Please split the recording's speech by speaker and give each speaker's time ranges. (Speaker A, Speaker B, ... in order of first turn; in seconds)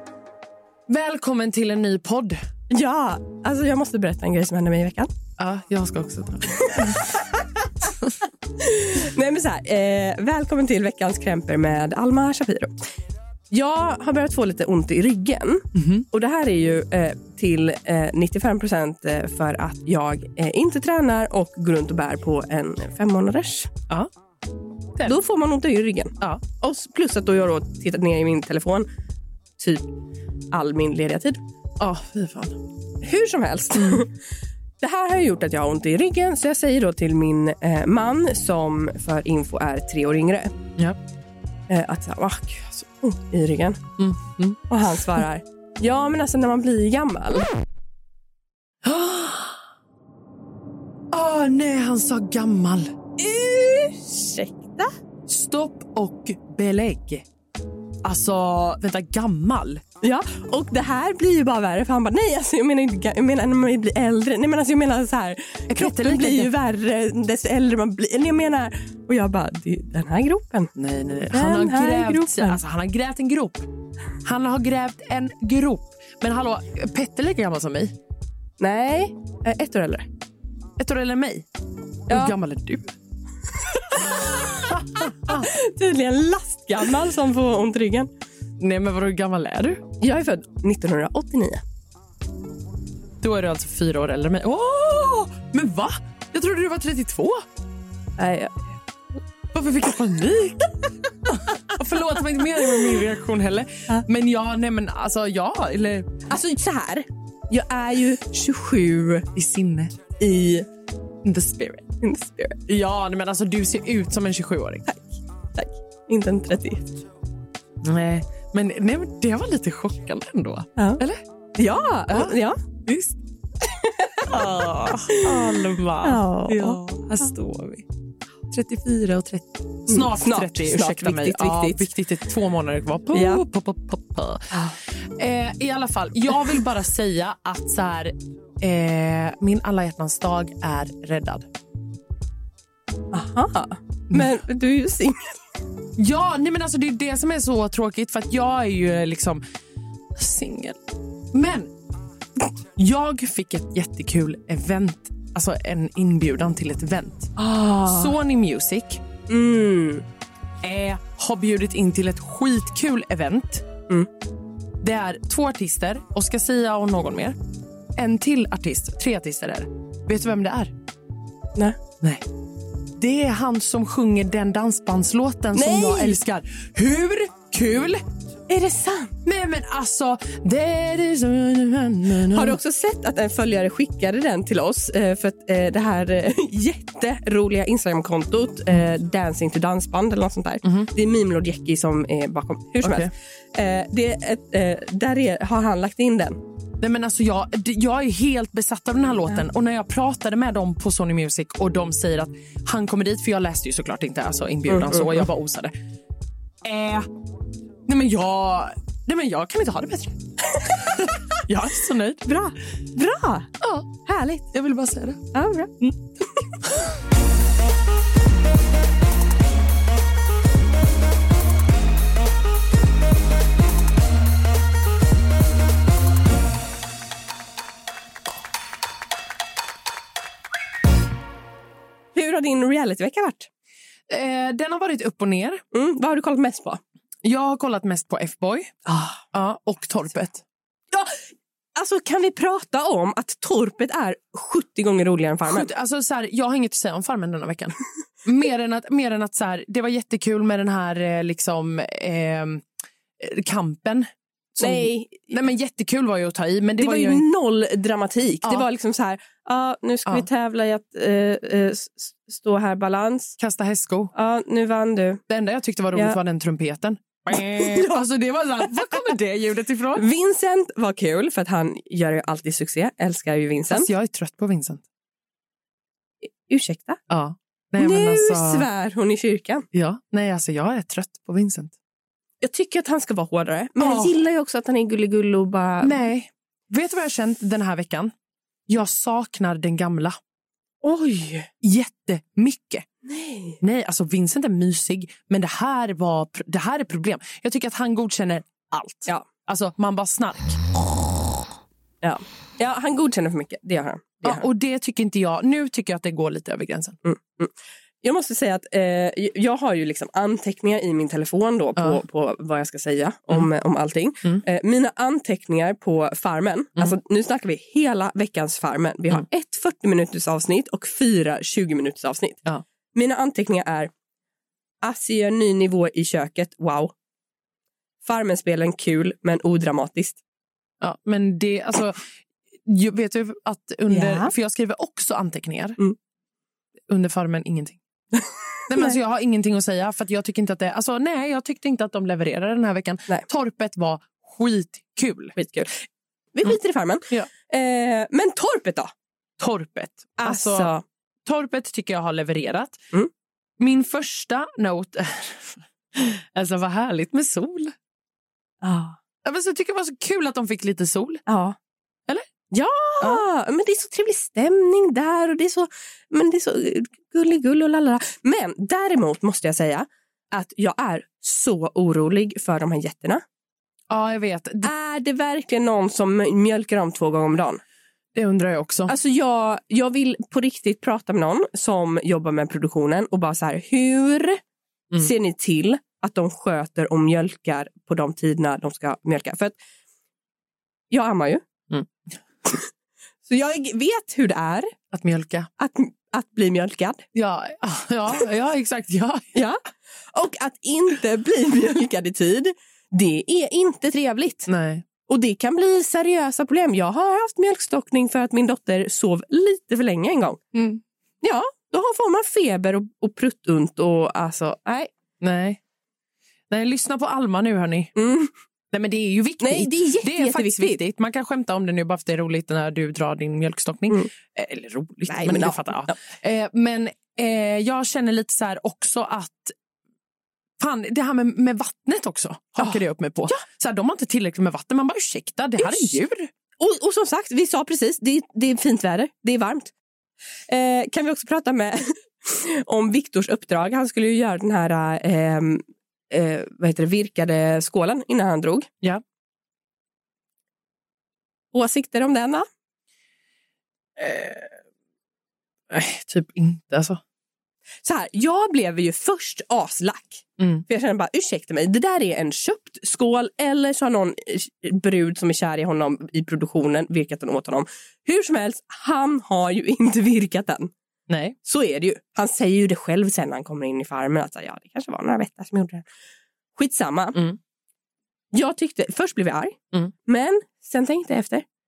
Speaker A: 0.9-2.4, 5.4-7.0, 15.7-16.1, 31.8-32.6, 33.7-34.0, 44.0-44.6, 48.8-49.6, 51.1-52.9, 55.3-57.2, 58.0-59.8, 65.7-66.5, 70.7-73.7, 74.2-77.9, 80.8-81.5, 82.1-82.9, 84.8-85.5, 88.6-89.8, 93.2-97.4, 99.5-100.7, 101.3-106.2, 109.3-110.0, 111.2-111.9, 112.7-114.8, 117.8-121.2, 122.1-123.2, 124.2-127.8, 128.5-141.5, 146.0-149.4, 150.1-150.8, 151.3-151.7, 152.7-159.0, 160.6-163.6, 164.8-167.4, 167.9-170.7, 173.0-178.0, 179.2-182.6, 190.6-190.9, 192.8-193.1, 196.8-205.7, 206.6-207.1, 207.9-212.3, 213.6-213.9, 214.5-215.2, 215.8-216.9, 234.1-235.6, 237.2-238.8, 239.3-240.4, 245.4-252.7, 253.2-257.2, 263.4-264.1, 265.3-270.1, 273.7-274.8, 277.1-278.6, 279.7-281.7, 283.8-284.2, 285.8-288.1, 288.7-290.2, 291.6-292.9, 293.6-300.6, 304.2-307.0, 330.8-332.1, 332.6-335.8, 336.9-337.8, 338.7-345.4, 349.4-350.7, 351.2-352.8, 353.6-357.7, 359.2-361.2, 363.0-363.2, 373.9-374.7, 378.1-378.9, 394.9-395.5, 397.1-399.3, 404.5-404.8, 410.5-410.8, 415.2-415.6, 416.5-417.9, 418.7-429.5, 430.6-436.3, 454.0-454.5, 455.7-457.0, 460.4-460.6, 471.1-471.3
Speaker B: 2.7-5.1, 6.6-7.6, 8.6-12.7, 13.5-23.7, 25.0-28.9, 29.6-29.9, 30.5-31.4, 33.0-34.1, 34.8-40.5, 41.7-43.8, 44.7-47.5, 53.2-54.9, 60.0-70.7, 71.3-72.6, 78.6-80.1, 82.1-82.3, 83.6-88.1, 90.0-91.6, 98.2-98.8, 106.3-109.2, 110.2-110.7, 112.0-112.6, 114.9-116.8, 120.8-121.0, 121.5-122.6, 123.6-126.8, 129.9-131.9, 133.1-133.4, 143.1-145.4, 157.4-158.1, 159.3-160.0, 175.5-176.2, 178.5-179.1, 182.2-196.4, 204.7-205.3, 210.5-211.0, 212.2-213.5, 214.0-214.4, 215.3-215.7, 232.1-233.5, 235.7-236.8, 238.8-239.2, 240.9-241.2, 241.8-245.7, 254.6-255.3, 256.8-263.4, 264.1-265.2, 267.3-268.0, 269.9-273.9, 276.2-277.0, 277.8-279.6, 282.4-286.0, 290.8-291.5, 293.0-293.6, 302.0-304.4, 307.0-322.4, 322.9-323.9, 324.8-326.9, 328.0-330.2, 333.9-334.3, 338.2-338.9, 345.4-345.7, 346.3-348.9, 350.2-350.8, 358.6-359.0, 361.3-361.6, 362.5-373.2, 374.6-377.6, 378.9-384.4, 385.0-389.6, 390.9-391.4, 393.2-394.7, 395.6-397.0, 399.3-404.5, 405.1-410.4, 411.2-414.9, 417.9-418.3, 419.4-420.8, 425.1-426.0, 435.6-436.0, 436.6-439.7, 440.5-448.7, 451.5-452.5, 457.8-470.7, 471.4-475.8, 476.5-477.2, 478.3-481.4